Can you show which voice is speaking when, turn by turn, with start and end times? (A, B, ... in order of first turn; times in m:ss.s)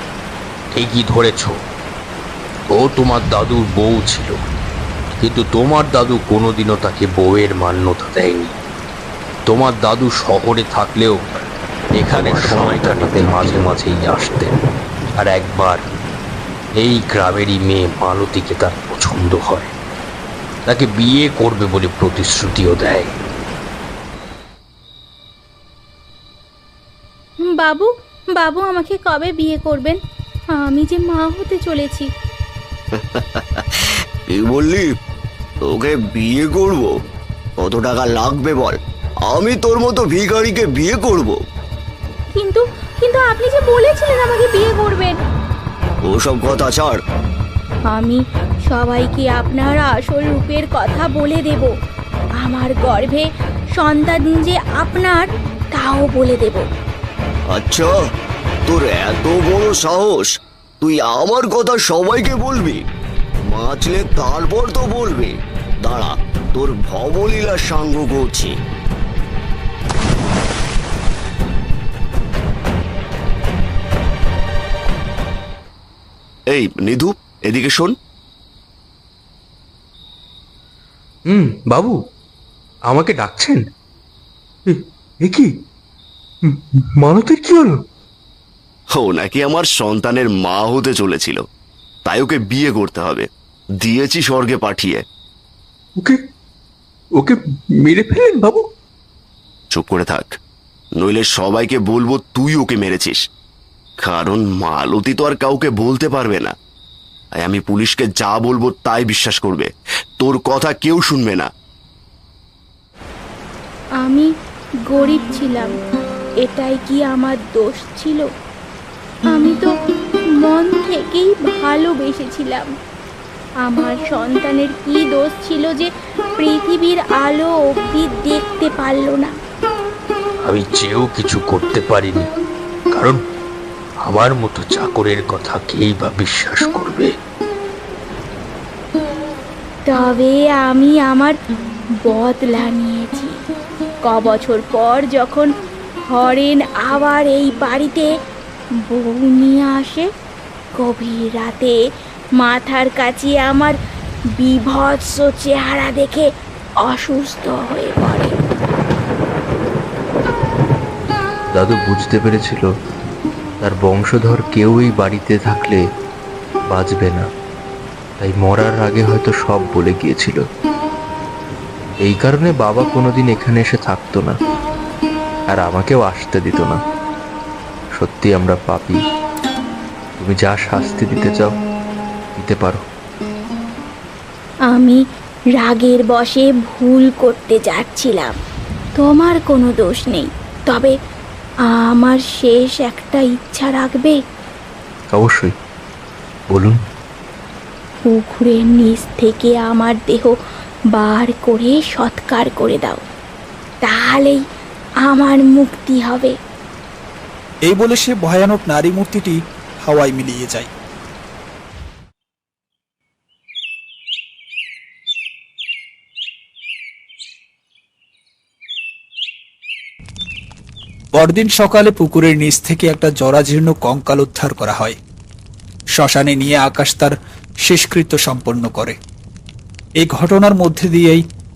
0:00.7-0:01.6 A
0:02.7-0:04.4 A
0:05.2-0:08.5 A
0:09.5-0:11.2 A
0:12.0-0:14.5 A
0:15.2-0:15.8 A
0:16.8-0:19.7 A
0:20.6-0:23.1 A
0:27.5-0:30.0 B
0:30.5-0:32.1 B
0:33.0-0:33.4 C
0:34.3-0:34.9 C
0:35.6-0:36.9 C
0:37.6-0:38.7 C
0:39.3-0:41.4 C
0:42.3-0:45.1 B
0:46.1-0:47.0 C
0:47.9-0:51.7 B
0:52.4-0:56.7 B
0:57.5-0:57.9 C
0:58.7-1:00.3 C
1:00.8-1:02.8 C
1:03.5-1:08.5 C
1:16.5-1:17.9 C
1:21.3-1:22.0 D
1:22.9-1:23.6 D
1:24.7-1:25.5 D
1:26.4-1:27.8 D
1:28.9-1:31.4 C
1:32.0-1:33.3 C
1:33.8-1:35.0 C
1:37.2-1:38.6 D
1:39.7-1:40.3 C
1:41.0-1:43.2 C
1:44.0-1:46.5 C
1:47.4-1:49.7 C
1:50.2-1:51.5 C
1:54.0-1:54.3 B
1:54.9-1:55.7 B
1:56.4-1:58.3 B
1:59.3-1:59.7 B
2:00.4-2:02.7 B
2:03.6-2:09.3 B
2:10.4-2:12.3 A
2:12.9-2:13.2 A
2:14.0-2:17.1 A
2:19.8-2:21.3 B
2:22.0-2:23.4 B
2:24.0-2:25.5 B
2:26.1-2:28.1 B
2:28.9-2:30.1 B
2:30.8-2:31.8 B
2:32.4-2:33.8 B
2:34.4-2:36.3 B
2:36.8-2:38.3 B
2:41.5-2:42.7 D
2:43.6-2:45.8 D
2:46.7-2:47.2 D
2:48.2-2:50.4 D
2:52.0-2:54.3 D
2:55.5-2:56.8 D
2:58.0-2:59.0 D
3:00.2-3:01.5 D
3:02.4-3:02.8 D
3:04.7-3:05.0 B
3:05.6-3:08.3 B
3:09.0-3:10.9 B
3:11.6-3:14.2 B
3:15.1-3:15.5 D
3:16.5-3:16.8 D
3:18.0-3:20.3 B
3:20.9-3:23.0 B
3:23.8-3:24.4 B
3:25.0-3:26.3 B
3:27.6-3:30.7 E
3:41.1-3:45.0 E
3:45.9-3:49.0 E
3:50.0-3:51.2 E